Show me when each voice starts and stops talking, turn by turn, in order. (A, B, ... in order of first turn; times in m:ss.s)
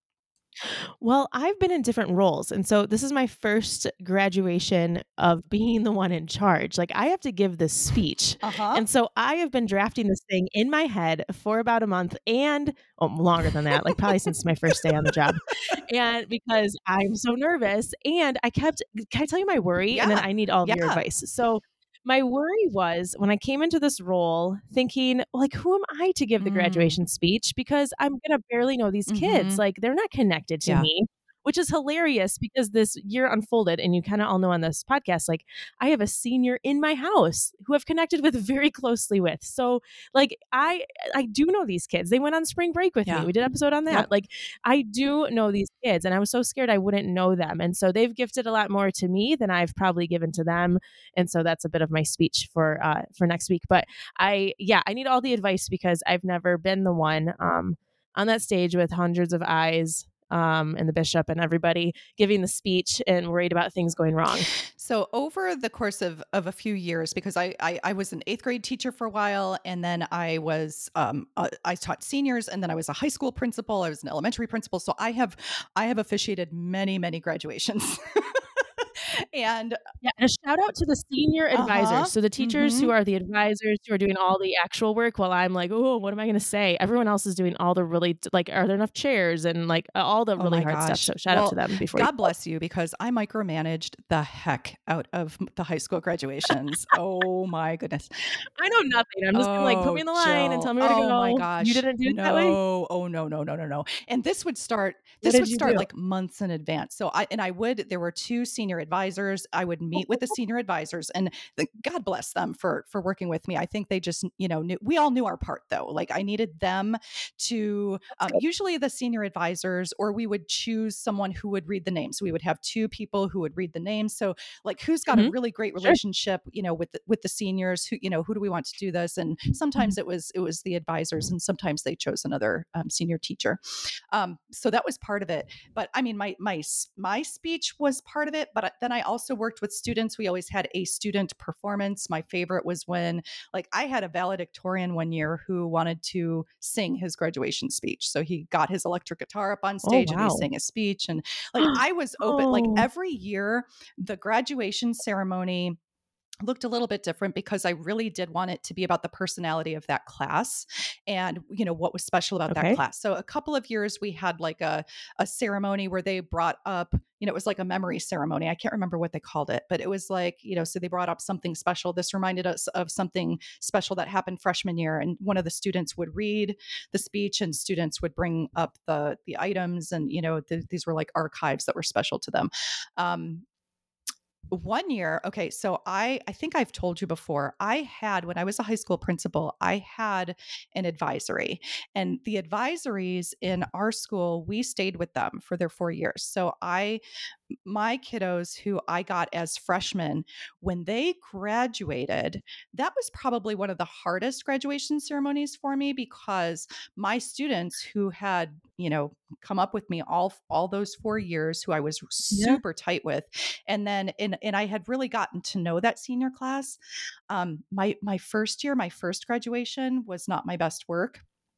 0:01.0-1:04.5 A
0:08.4-0:08.8 B
0:19.9-0:21.0 B
0:26.4-0:27.0 B
0:29.1-0:29.6 B
0:43.0-0:43.3 B
1:04.8-1:19.8 B
1:20.0-1:32.2 A
1:21.5-1:22.9 B
1:30.4-1:38.1 B
1:38.6-1:42.6 A
1:39.3-2:13.6 B
1:45.2-1:45.9 A
2:05.1-2:06.0 A
2:14.1-2:35.8 B
2:29.8-2:30.5 A
2:31.6-2:32.8 A
2:36.4-3:03.4 B
2:42.5-2:42.8 A
3:04.5-3:17.0 B
3:17.6-3:36.8 B
3:32.3-3:32.6 A
3:37.3-3:41.2 B